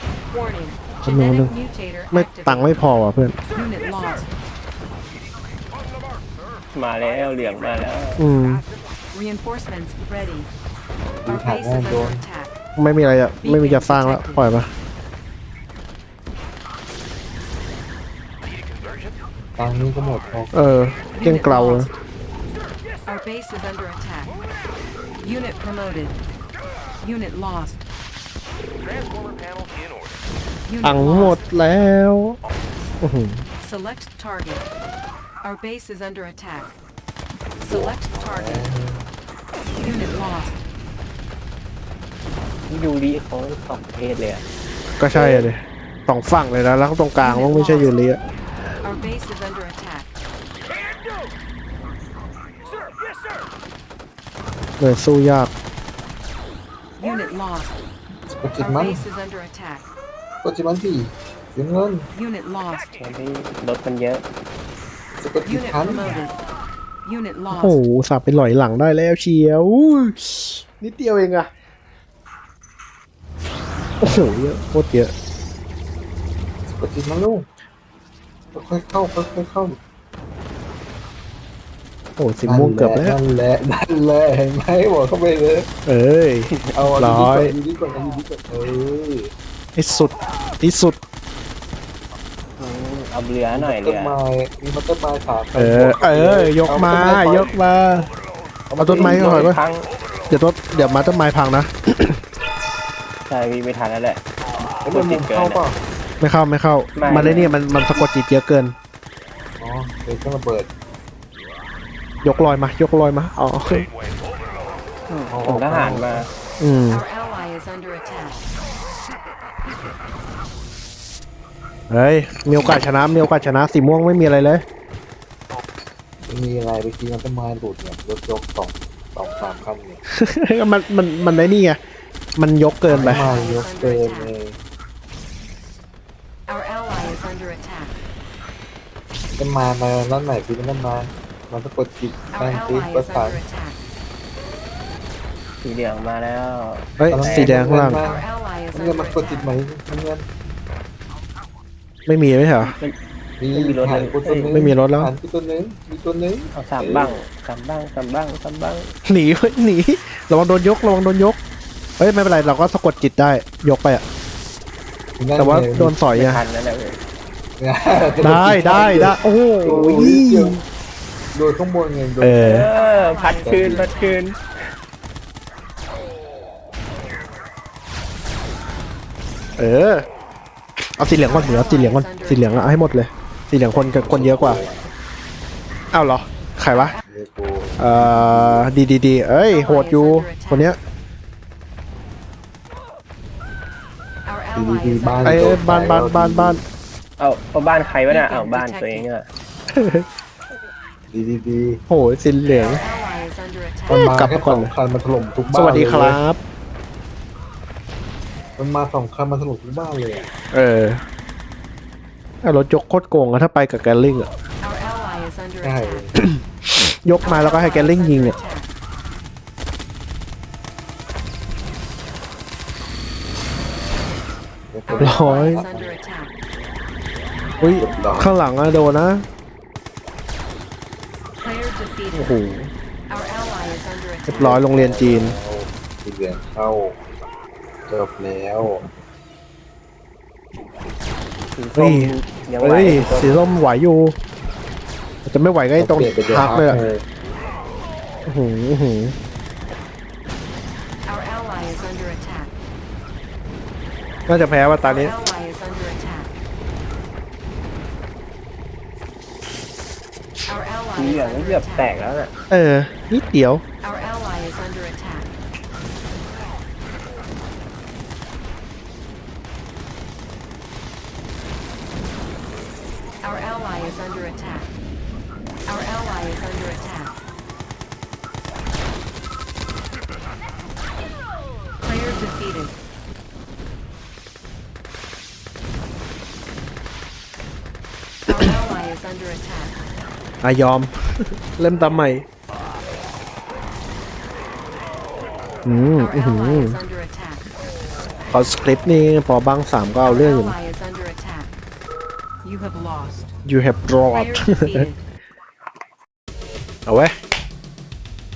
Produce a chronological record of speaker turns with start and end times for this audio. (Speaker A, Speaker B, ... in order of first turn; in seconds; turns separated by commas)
Speaker A: 0.3-2.7, Speaker B: 1.0-1.5, Speaker B: 2.1-3.4, Speaker C: 3.5-4.3, Speaker A: 3.5-4.3, Speaker C: 5.7-9.0, Speaker D: 6.7-8.2, Speaker B: 8.2-8.6, Speaker A: 9.1-10.5, Speaker E: 11.2-12.2, Speaker A: 11.3-12.6, Speaker B: 12.8-14.7, Speaker A: 13.4-14.5, Speaker C: 18.4-19.3, Speaker E: 19.5-20.6, Speaker C: 19.9-21.1, Speaker B: 20.5-21.9, Speaker A: 21.1-22.0, Speaker C: 22.6-23.1, Speaker A: 23.1-24.3, Speaker C: 24.3-24.9, Speaker A: 25.2-26.2, Speaker A: 27.0-27.9, Speaker C: 28.8-30.2, Speaker A: 30.7-31.5, Speaker B: 30.8-32.4, Speaker B: 33.0-33.5, Speaker A: 33.6-34.7, Speaker A: 35.4-36.8, Speaker E: 37.6-39.1, Speaker A: 37.7-38.7, Speaker A: 39.8-40.6, Speaker D: 42.7-44.5, Speaker B: 45.0-48.2, Speaker D: 45.1-45.5, Speaker A: 47.2-48.0, Speaker A: 48.8-50.1, Speaker C: 50.6-51.3, Speaker C: 52.6-53.5, Speaker B: 54.8-55.5, Speaker A: 57.0-57.8, Speaker E: 58.3-59.0, Speaker A: 58.6-59.9, Speaker E: 60.4-62.1, Speaker A: 62.1-63.0, Speaker C: 62.7-63.0, Speaker D: 63.0-64.2, Speaker E: 65.2-66.3, Speaker A: 65.5-66.3, Speaker A: 67.0-67.8, Speaker B: 67.5-71.5, Speaker B: 74.0-75.1, Speaker E: 76.7-77.5, Speaker E: 78.5-79.8, Speaker B: 82.2-83.2, Speaker E: 82.4-85.7, Speaker B: 85.9-87.5, Speaker D: 86.5-86.8, Speaker E: 86.8-89.3, Speaker B: 89.8-91.0, Speaker D: 92.6-94.2, Speaker E: 93.5-97.6, Speaker B: 95.5-98.1, Speaker C: 98.1-98.4, Speaker D: 98.7-99.9, Speaker B: 98.8-99.6, Speaker E: 98.9-99.5, Speaker C: 99.9-100.3, Speaker B: 100.3-102.2, Speaker D: 103.3-104.2, Speaker E: 104.8-105.8, Speaker D: 104.9-105.6, Speaker B: 106.2-108.8, Speaker D: 107.0-107.7, Speaker E: 109.6-110.7, Speaker B: 112.2-113.9, Speaker C: 113.7-114.8, Speaker D: 115.1-116.3, Speaker E: 115.3-116.3, Speaker B: 116.6-117.0, Speaker A: 116.9-118.4, Speaker B: 121.9-124.7, Speaker E: 126.2-130.0, Speaker B: 130.1-131.8, Speaker B: 132.4-133.3, Speaker E: 132.9-134.6, Speaker A: 132.9-134.3, Speaker A: 136.5-138.0, Speaker E: 139.4-143.4, Speaker A: 142.3-143.8, Speaker D: 145.6-147.7, Speaker B: 147.0-148.0, Speaker E: 147.1-150.3, Speaker A: 147.9-149.5, Speaker B: 152.1-152.7, Speaker D: 152.6-152.9, Speaker E: 153.4-157.2, Speaker D: 153.5-154.6, Speaker B: 154.4-155.1, Speaker D: 156.5-158.9, Speaker B: 159.1-161.4, Speaker B: 162.0-164.0, Speaker E: 165.2-166.0, Speaker B: 165.4-166.4, Speaker D: 166.1-167.0, Speaker E: 167.6-170.6, Speaker B: 168.2-170.6, Speaker D: 169.5-170.0, Speaker E: 171.3-172.7, Speaker B: 172.2-172.7, Speaker A: 172.5-174.2, Speaker D: 172.5-174.4, Speaker E: 173.4-174.0, Speaker B: 179.6-180.1, Speaker B: 181.0-184.6, Speaker A: 181.2-182.8, Speaker E: 183.9-184.9, Speaker B: 185.9-187.0, Speaker E: 187.1-188.1, Speaker B: 187.8-190.8, Speaker A: 189.5-190.8, Speaker A: 194.3-195.9, Speaker E: 194.5-196.6, Speaker B: 195.2-196.6, Speaker D: 197.2-199.3, Speaker A: 198.1-199.1, Speaker B: 199.7-200.1, Speaker E: 201.1-201.8, Speaker B: 201.9-202.8, Speaker A: 202.6-204.1, Speaker B: 203.9-204.7, Speaker E: 203.9-206.2, Speaker B: 205.5-206.4, Speaker E: 208.6-210.3, Speaker B: 210.5-211.0, Speaker B: 212.4-214.3, Speaker A: 214.6-216.1, Speaker E: 215.6-216.2, Speaker B: 216.2-218.4, Speaker A: 217.2-218.7, Speaker E: 224.7-225.9, Speaker A: 224.9-226.3, Speaker B: 225.0-225.7, Speaker B: 227.6-229.2, Speaker E: 227.7-228.3, Speaker A: 231.4-232.3, Speaker B: 232.1-232.7, Speaker A: 233.1-234.6, Speaker B: 234.3-235.3, Speaker E: 234.4-237.0, Speaker E: 237.9-238.9, Speaker D: 241.6-243.4, Speaker B: 241.8-244.2, Speaker B: 245.2-246.8, Speaker E: 245.8-247.0, Speaker B: 248.3-249.2, Speaker A: 251.1-252.5, Speaker B: 254.3-255.2, Speaker A: 254.8-256.3, Speaker A: 260.5-262.0, Speaker D: 260.9-262.3, Speaker B: 262.5-263.6, Speaker A: 263.8-265.3, Speaker A: 273.2-274.8, Speaker A: 275.7-277.1, Speaker A: 281.8-282.8, Speaker A: 288.3-289.8, Speaker B: 290.4-292.3, Speaker B: 295.6-296.8, Speaker A: 296.0-297.4, Speaker B: 298.3-300.6, Speaker A: 300.1-301.6, Speaker A: 302.4-303.3, Speaker B: 303.4-304.9, Speaker A: 304.1-305.0, Speaker B: 306.9-307.1